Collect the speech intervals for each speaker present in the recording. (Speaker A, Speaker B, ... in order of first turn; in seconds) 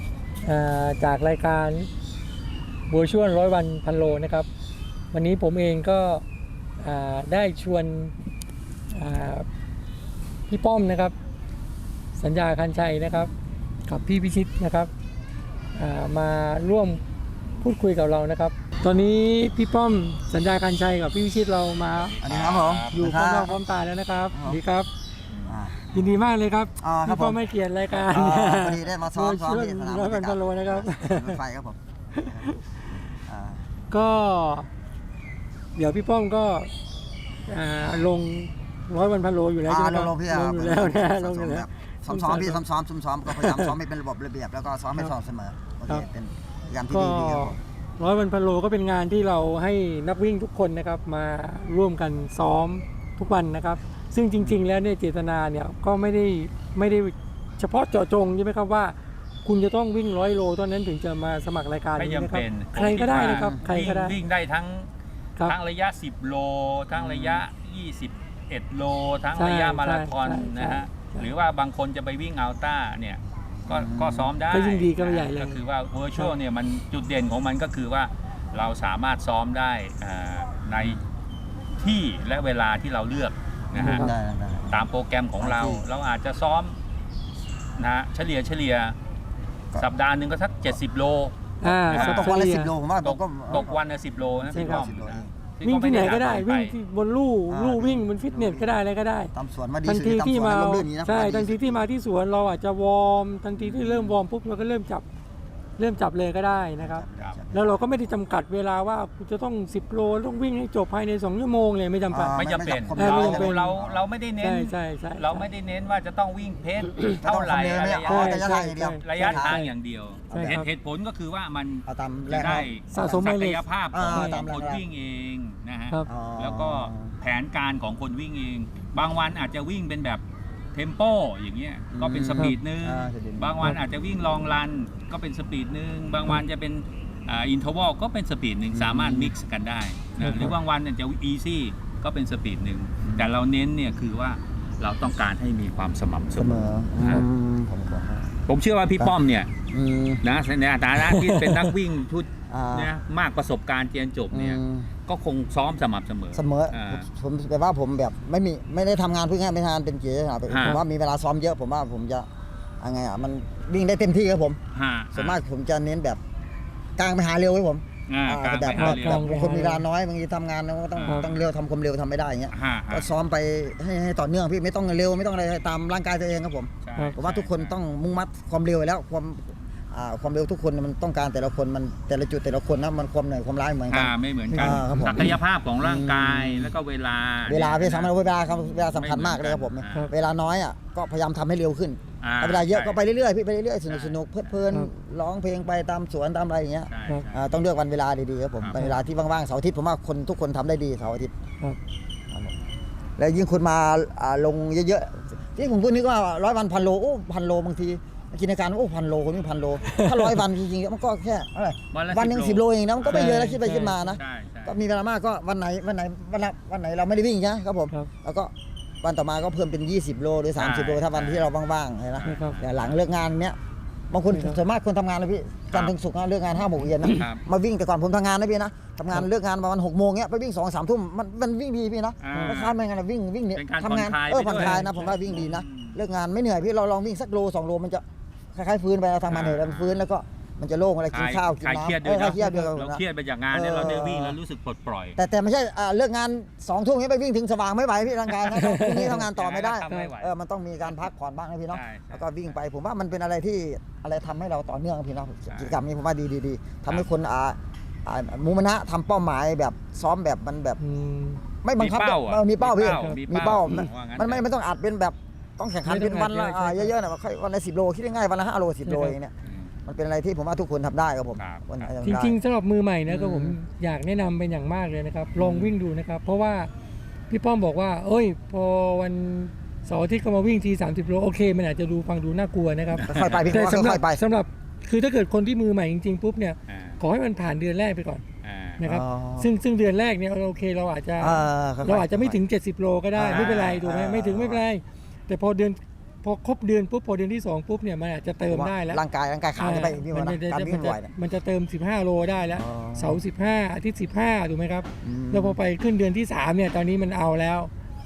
Speaker A: 0.4-1.9, 2.9-4.5, 5.1-6.2, 6.8-8.1, 8.9-9.5, 10.5-11.2, 12.2-13.3, 13.9-14.9, 15.8-17.0, 17.6-22.2, 22.9-24.9, 25.9-31.4, 32.2-32.6, 33.9-34.7, 35.8-36.7, 37.5-42.6, 43.3-43.7, 46.9-64.2, 69.3-71.3, 74.5-76.3, 83.8-84.1, 91.6-92.7, 94.5-94.9, 95.6-99.3, 99.8-105.1, 105.8-112.4, 113.0-113.8, 114.4-115.5, 118.1-119.7, 120.3-120.7, 122.9-124.4, 140.2-140.5, 151.0-151.7, 168.7-169.8, 171.1-171.3, 184.5-184.8, 209.9-210.4, 213.1-214.2, 222.2-222.6, 224.3-224.6, 232.3-232.6, 234.6-234.9, 248.6-249.2, 249.9-250.1, 260.8-261.4, 262.8-263.8, 265.9-266.9, 268.9-269.2, 272.0-276.7, 277.3-288.2, 288.8-299.0, 299.6-307.7
Speaker B: 22.2-23.0, 62.0-64.9, 65.4-81.0, 81.8-84.1, 84.7-86.8, 87.8-89.0, 89.8-91.4, 91.9-92.4, 93.0-96.8, 112.4-118.5, 119.0-130.2, 130.7-147.3, 148.5-149.5, 150.2-157.1, 160.5-160.8, 164.7-165.4, 168.1-169.3, 171.0-171.3, 172.5-173.1, 176.8-177.8, 183.9-190.1, 192.2-193.0, 193.9-194.2, 196.9-197.4, 211.9-213.4, 214.2-214.8, 220.6-221.5, 222.2-223.0, 227.1-227.4, 232.2-232.8, 233.6-236.0, 239.3-240.0, 241.1-245.2, 249.3-250.3, 251.7-252.6, 255.5-255.8, 261.8-264.4, 271.4-271.9, 282.9-283.6, 286.7-287.0, 288.4-288.8, 293.3-293.6
Speaker C: 22.2-23.6, 24.3-24.6, 25.5-26.0, 26.8-27.4, 28.1-32.5, 33.2-33.7, 39.6-47.6, 63.1-63.6, 66.9-67.5, 73.7-74.3, 83.7-84.8, 85.4-85.8, 91.7-95.3, 97.5-98.8, 99.3-101.8, 103.6-104.1, 106.8-107.8, 112.1-114.0, 117.1-119.6, 120.3-120.6, 121.9-123.3, 123.9-124.8, 126.1-127.2, 131.9-133.6, 138.7-139.3, 140.2-140.5, 143.0-143.4, 146.4-148.5, 149.7-150.2, 152.5-152.9, 154.3-154.9, 156.3-162.3, 162.8-164.6, 165.1-166.2, 167.0-186.7, 187.5-201.3, 203.2-223.6, 224.1-238.0, 238.5-244.4, 245.2-260.8, 261.6-269.3, 269.9-272.4, 273.1-273.6, 275.4-275.7, 283.0-284.2, 288.8-289.5, 291.2-292.4, 293.1-294.6, 298.5-301.1, 302.6-303.2, 305.0-305.6